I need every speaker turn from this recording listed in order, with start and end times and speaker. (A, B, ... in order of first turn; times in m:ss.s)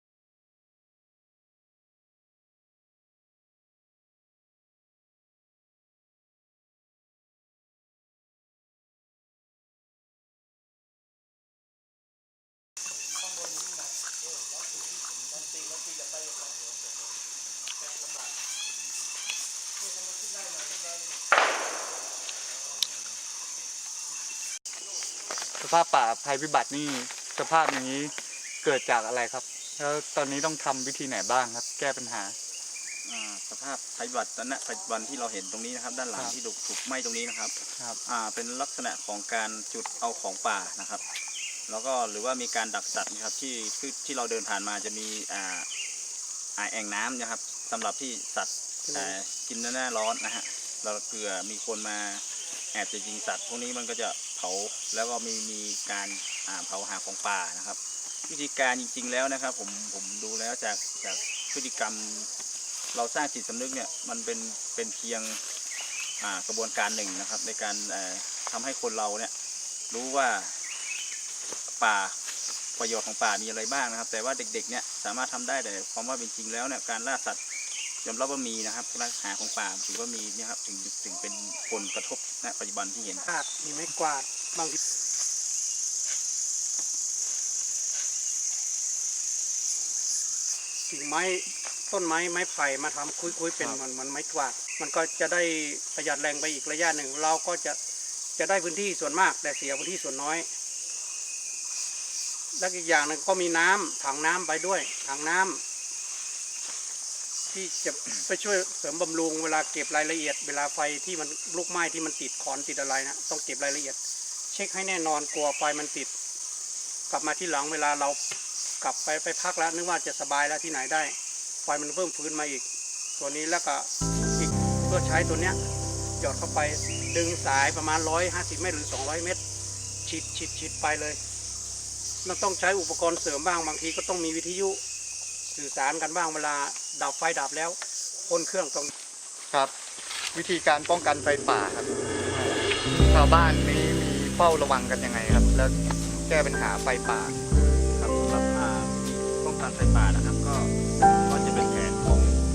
0:25.6-0:32.4 A
0:33.1-0:37.5 B
0:38.1-0:41.0 B
0:41.7-0:45.7 B
0:46.6-1:02.3 B
0:48.9-0:49.1 C
1:02.9-1:05.4 B
1:06.2-1:09.3 B
1:09.9-1:10.5 B
1:11.8-1:12.2 B
1:12.8-1:17.4 B
1:18.0-1:23.3 B
1:23.2-1:24.8 C
1:30.9-1:37.8 C
1:38.4-1:40.5 C
1:42.6-1:45.6 C
1:47.5-1:54.0 C
1:54.5-1:56.1 C
1:57.1-1:58.2 C
1:58.8-2:02.7 C
2:03.2-2:05.6 C
2:06.2-2:09.4 C
2:10.0-2:11.2 C
2:12.2-2:14.8 C
2:15.5-2:18.9 C
2:20.3-2:27.4 A
2:27.9-2:30.7 B
2:31.3-2:32.4 B